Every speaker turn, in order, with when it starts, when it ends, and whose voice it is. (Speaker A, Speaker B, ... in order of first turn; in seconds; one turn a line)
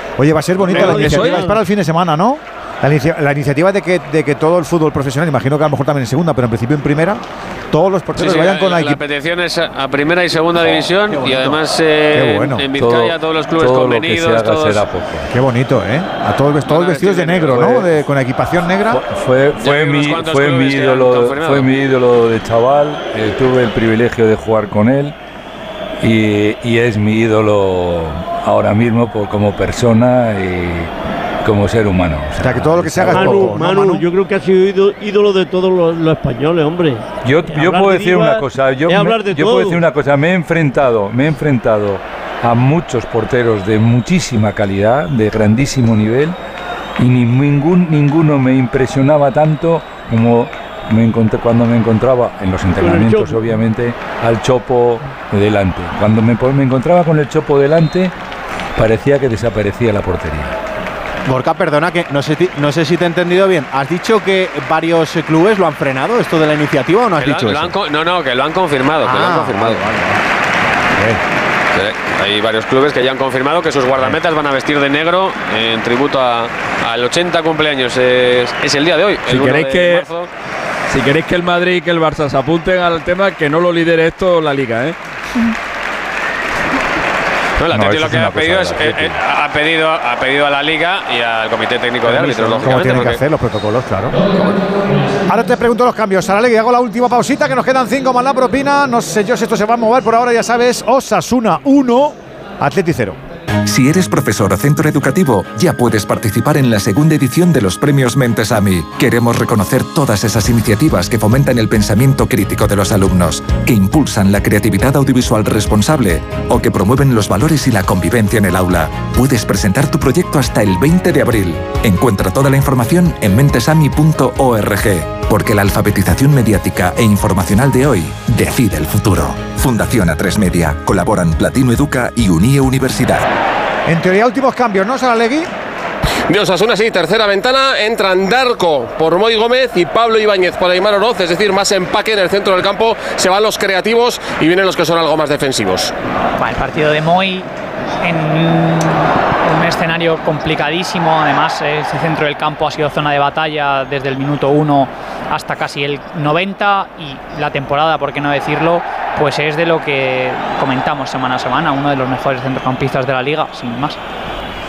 Speaker A: 0.2-9.0
Speaker B: 0.6-1.5
Speaker C: 0.7-1.5
Speaker D: 8.2-14.8
Speaker E: 11.1-11.6
Speaker A: 12.1-12.6
Speaker F: 12.8-15.3
Speaker A: 15.3-19.0
Speaker D: 16.7-17.8
Speaker F: 18.9-25.1
Speaker D: 19.6-21.7
Speaker F: 26.0-30.9
Speaker F: 31.4-33.5
Speaker A: 32.4-34.1
Speaker C: 33.1-39.8
Speaker F: 37.2-46.4
Speaker F: 47.0-58.1
Speaker C: 52.8-53.5
Speaker F: 58.8-60.5
Speaker E: 61.3-67.7
Speaker D: 67.2-69.8
Speaker E: 69.0-70.2
Speaker D: 71.7-80.3
Speaker B: 79.3-80.0
Speaker B: 80.9-85.0
Speaker D: 87.6-93.2
Speaker F: 87.7-89.1
Speaker A: 92.1-94.2
Speaker D: 94.3-94.6
Speaker A: 95.3-103.2
Speaker G: 103.7-133.2
Speaker A: 133.9-135.5
Speaker H: 136.3-145.9
Speaker I: 146.4-147.5
Speaker I: 148.0-164.0